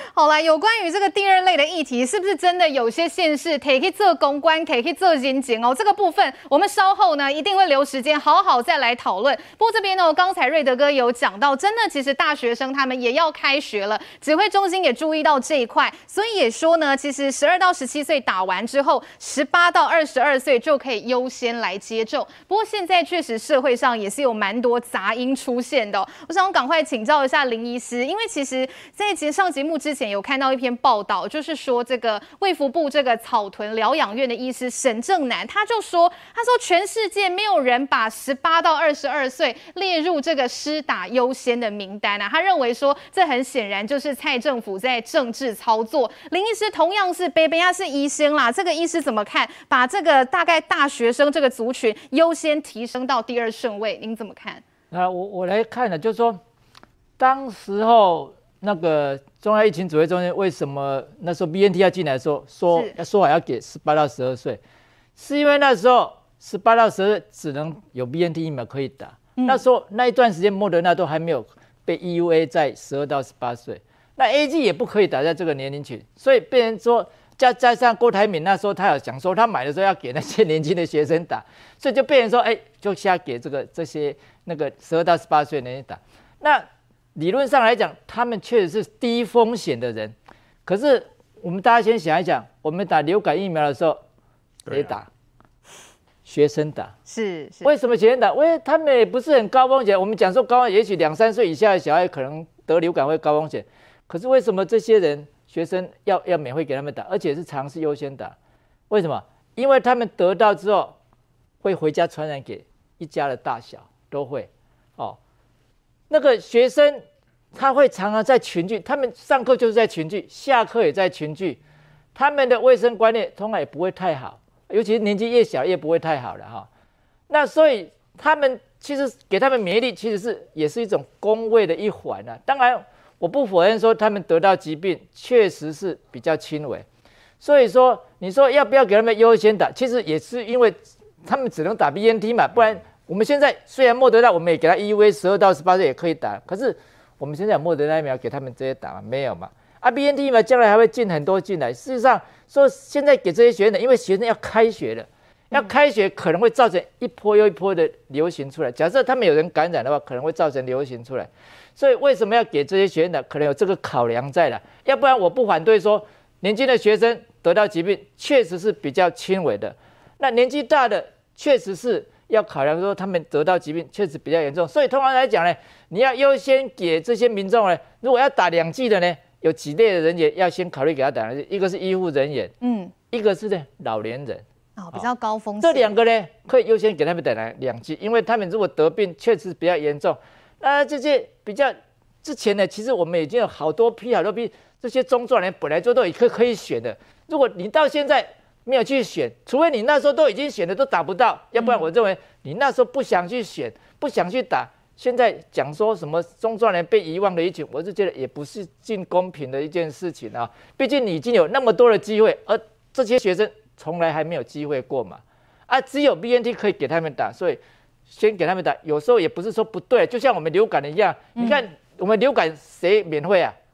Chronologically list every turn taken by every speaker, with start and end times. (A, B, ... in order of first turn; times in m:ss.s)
0:00.2-0:54.6 A
0:54.9-0:56.4 B
0:57.2-1:04.6 B
1:05.2-1:30.2 B
1:09.4-1:09.6 A
1:30.7-1:34.0 B
1:34.7-1:35.1 B
1:36.3-1:36.9 B
1:37.1-1:37.7 A
1:37.6-1:48.4 B
1:48.9-1:51.0 B
1:51.6-1:55.2 B
1:56.1-2:01.6 B
2:02.2-2:06.7 B
2:07.3-2:16.9 B
2:17.4-3:02.5 B
3:02.6-3:02.9 A
3:03.1-3:05.1 B
3:04.8-3:05.9 A
3:05.6-3:43.6 B
3:21.6-3:21.9 A
3:41.4-3:41.6 A